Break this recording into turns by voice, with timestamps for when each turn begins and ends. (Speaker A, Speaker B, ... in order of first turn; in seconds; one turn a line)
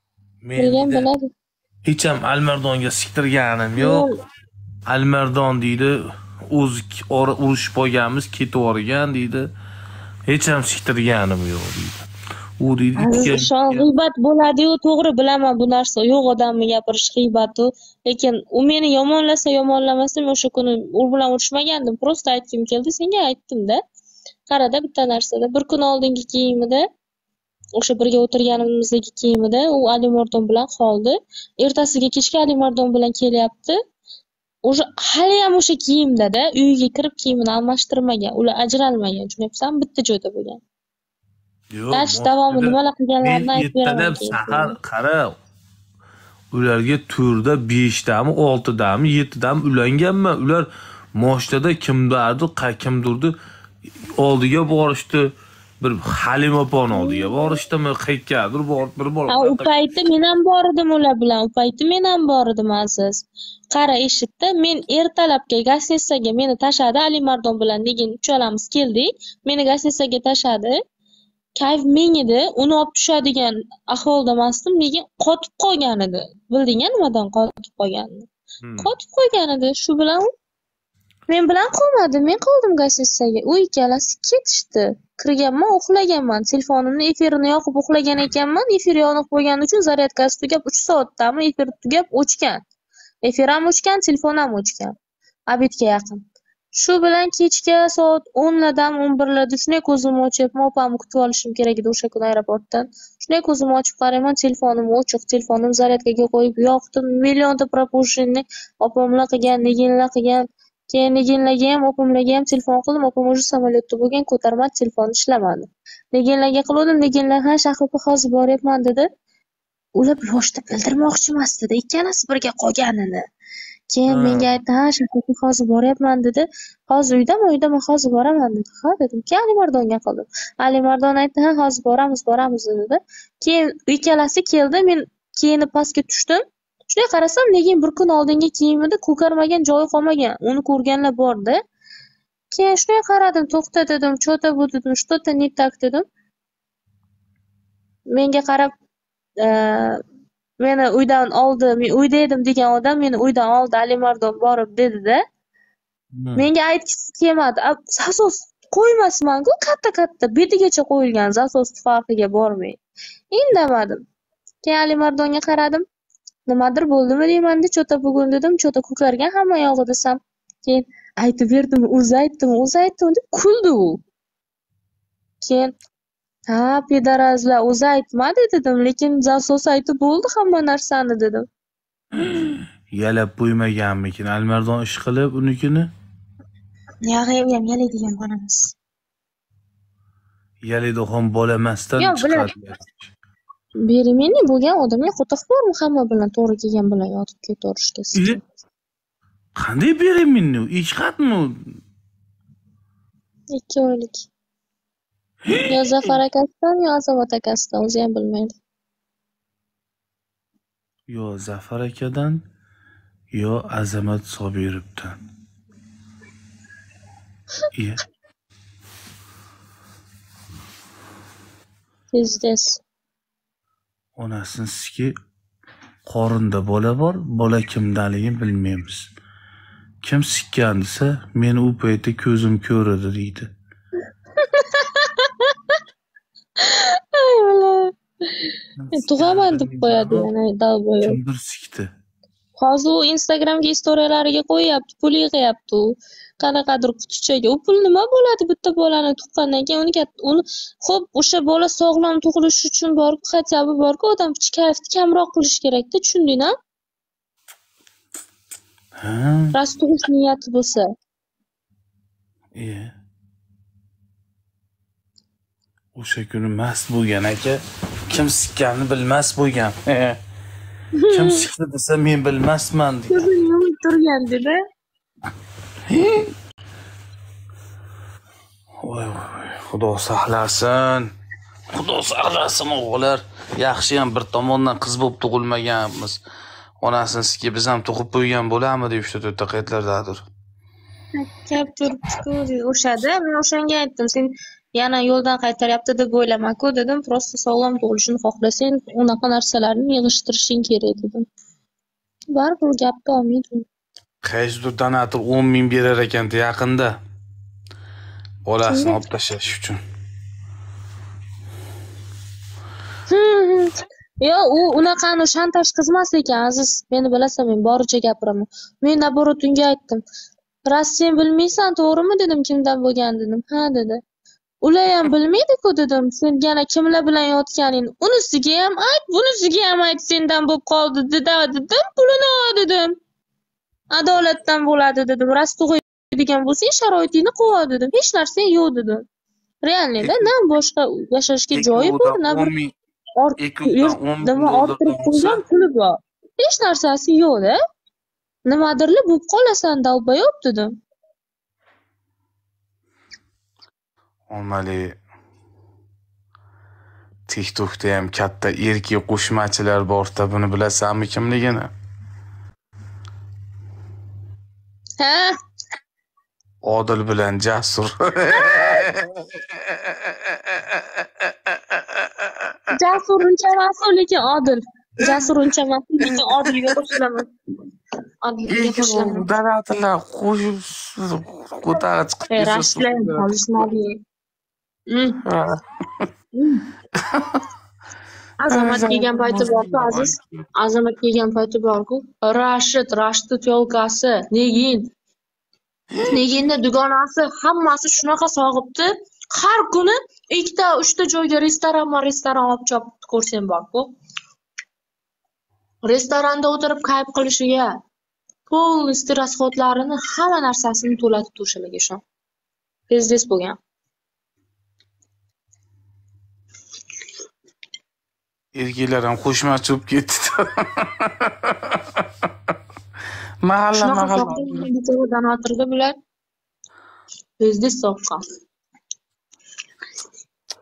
Speaker A: 0.4-1.1
Speaker B: 0.6-1.3
Speaker A: 1.8-4.1
Speaker B: 3.8-4.1
Speaker A: 4.9-9.5
Speaker A: 10.3-12.1
Speaker A: 12.6-13.9
Speaker B: 12.9-23.8
Speaker B: 24.5-26.8
Speaker B: 27.8-33.8
Speaker B: 34.6-40.6
Speaker A: 41.7-45.3
Speaker B: 41.9-44.8
Speaker A: 46.5-53.4
Speaker A: 54.1-59.7
Speaker B: 56.9-57.6
Speaker B: 59.3-70.8
Speaker B: 71.6-78.3
Speaker A: 78.6-78.9
Speaker B: 78.8-80.3
Speaker B: 81.3-92.6
Speaker B: 93.2-94.9
Speaker B: 95.5-119.1
Speaker B: 120.0-123.2
Speaker B: 123.9-141.6
Speaker A: 124.1-124.5
Speaker B: 142.5-146.0
Speaker B: 148.1-148.7
Speaker B: 149.4-150.0
Speaker B: 150.6-155.2
Speaker A: 156.2-156.5
Speaker B: 156.3-162.8
Speaker B: 163.3-164.0
Speaker B: 164.6-165.8
Speaker B: 166.5-174.0
Speaker B: 175.4-175.7
Speaker B: 176.5-181.4
Speaker A: 182.1-185.9
Speaker B: 187.0-188.8
Speaker A: 190.6-193.0
Speaker B: 192.0-192.5
Speaker B: 193.8-198.5
Speaker A: 198.1-198.4
Speaker A: 199.6-201.6
Speaker B: 203.5-204.3
Speaker A: 205.4-206.2
Speaker B: 205.7-208.6
Speaker A: 211.1-212.4
Speaker A: 213.3-215.2
Speaker A: 217.7-218.0
Speaker B: 222.1-222.8
Speaker A: 224.2-225.1
Speaker A: 226.1-229.1
Speaker A: 230.0-233.5
Speaker B: 234.4-235.5
Speaker B: 236.6-241.2
Speaker A: 238.8-240.3
Speaker A: 241.0-241.9
Speaker B: 242.6-256.5
Speaker A: 259.0-259.5
Speaker B: 259.5-260.9
Speaker A: 262.5-262.9
Speaker A: 265.9-270.2
Speaker B: 270.9-271.4
Speaker A: 271.1-273.3
Speaker B: 273.1-274.6
Speaker A: 275.9-276.3
Speaker A: 278.8-281.1
Speaker A: 281.7-286.2
Speaker A: 286.8-290.2
Speaker B: 291.1-301.2
Speaker B: 302.3-303.6
Speaker A: 304.2-306.9
Speaker A: 308.4-309.8
Speaker B: 308.6-309.0
Speaker B: 313.1-320.0
Speaker B: 320.7-324.0
Speaker B: 324.6-332.9
Speaker B: 333.9-339.0
Speaker B: 339.6-342.5
Speaker A: 340.0-340.3
Speaker A: 341.5-342.7
Speaker B: 343.2-347.6
Speaker A: 343.4-345.4
Speaker B: 348.4-350.7
Speaker A: 354.3-355.0
Speaker A: 357.3-361.7
Speaker B: 365.0-365.3
Speaker A: 366.6-370.8
Speaker B: 368.3-368.9
Speaker A: 371.5-372.1
Speaker B: 372.7-377.2
Speaker A: 376.1-376.7
Speaker B: 378.2-379.3
Speaker A: 378.5-383.6
Speaker B: 382.3-384.0
Speaker B: 384.9-385.2
Speaker A: 385.2-386.0
Speaker B: 386.3-386.7
Speaker A: 387.1-387.4
Speaker B: 388.4-394.9
Speaker A: 388.5-390.3
Speaker A: 395.9-396.2
Speaker B: 396.1-403.9
Speaker B: 405.8-407.7
Speaker B: 408.5-412.0
Speaker B: 412.9-413.6
Speaker A: 418.5-422.3
Speaker A: 423.4-424.6
Speaker B: 423.8-425.9
Speaker B: 427.4-428.2